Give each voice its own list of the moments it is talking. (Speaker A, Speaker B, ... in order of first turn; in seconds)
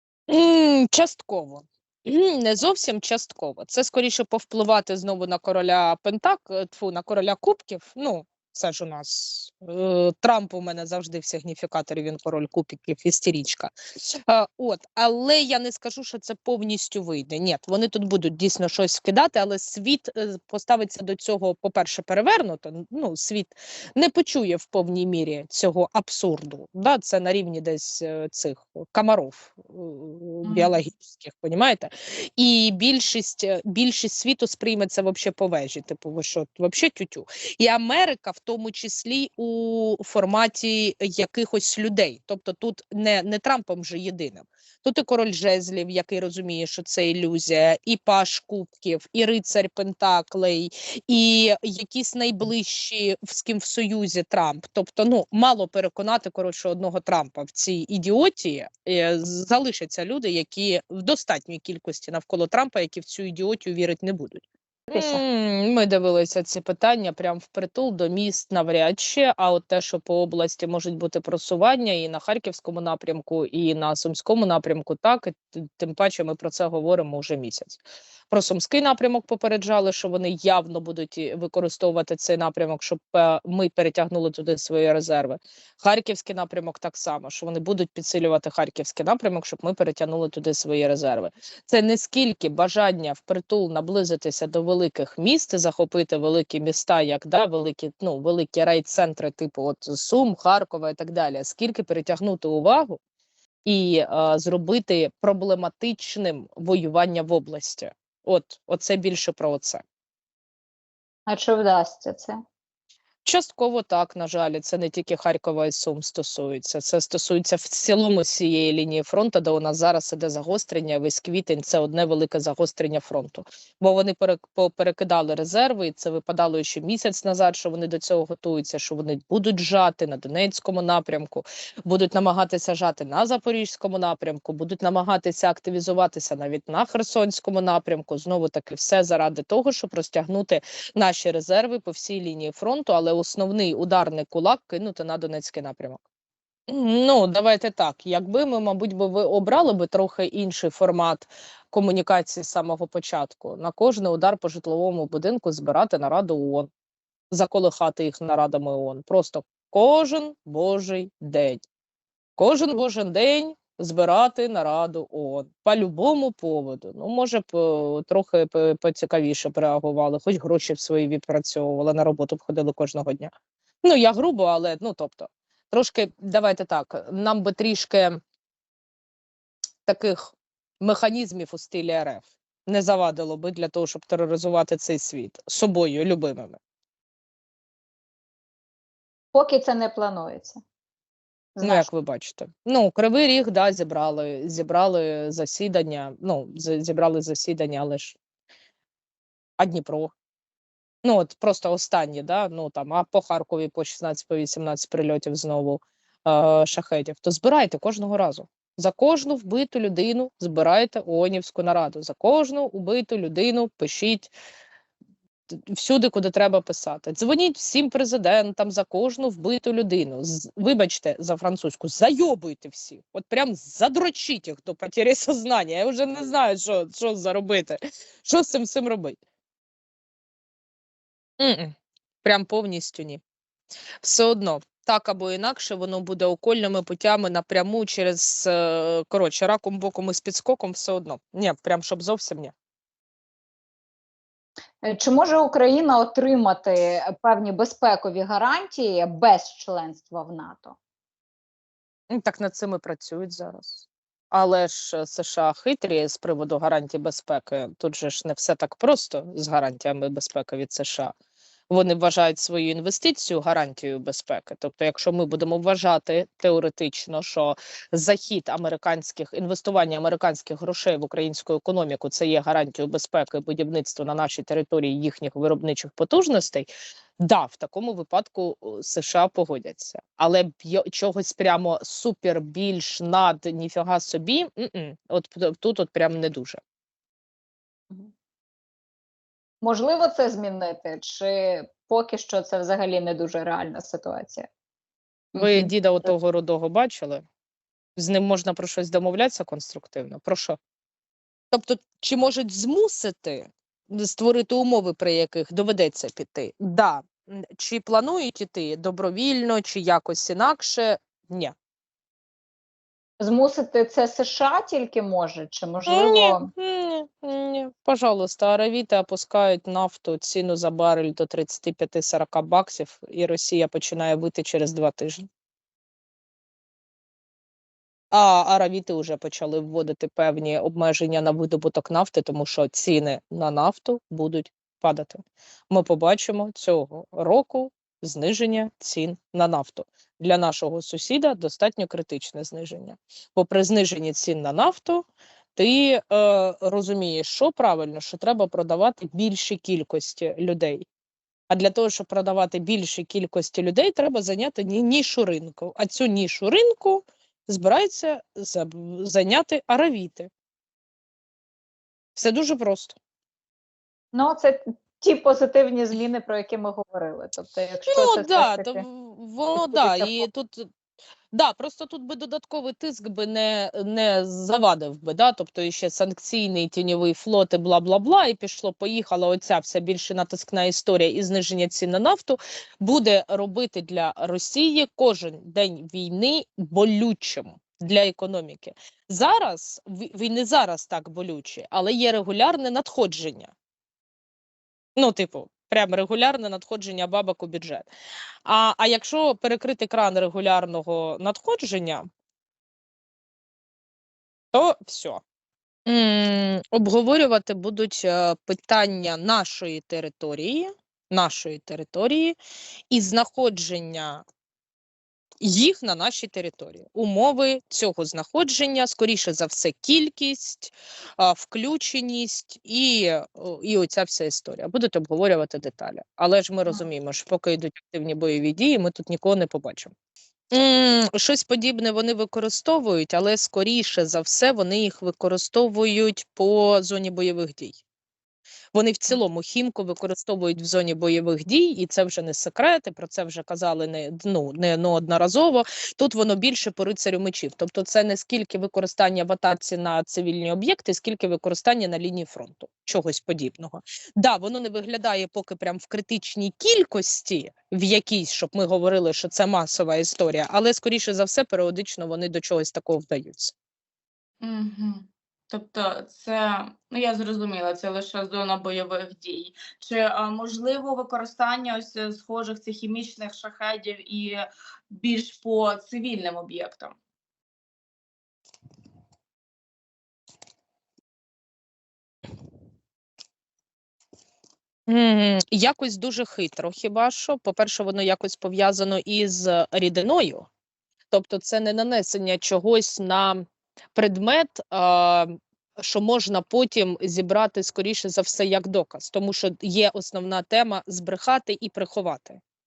Speaker A: 0.3-103.0, 103.6-109.8, 113.2-146.0, 146.7-156.7, 157.3-161.6, 162.4-173.3, 173.8-178.2, 179.8-186.6, 191.6-198.2, 199.6-200.1, 201.0-214.3, 215.5-229.2, 231.4-233.2, 234.0-242.5, 252.1-261.1, 261.7-286.6, 295.4-297.2, 298.0-300.6, 301.5-311.5, 315.9-325.2, 328.1-350.8, 351.5-360.3, 362.1-363.0, 367.9-370.7, 371.3-393.5, 395.0-397.9, 398.4-402.1, 404.5-405.2, 405.9-412.4, 412.9-414.2, 415.4-429.9, 430.5-437.8, 438.7-463.5, 484.9-490.5, 491.1-502.4
Speaker B: 30.4-30.7, 464.4-476.9
Speaker C: 64.9-65.2, 111.3-112.4, 189.3-190.6, 191.5-191.9, 244.8-250.8, 289.6-294.5, 295.3-295.7, 313.2-316.5, 364.1-368.8, 369.6-370.2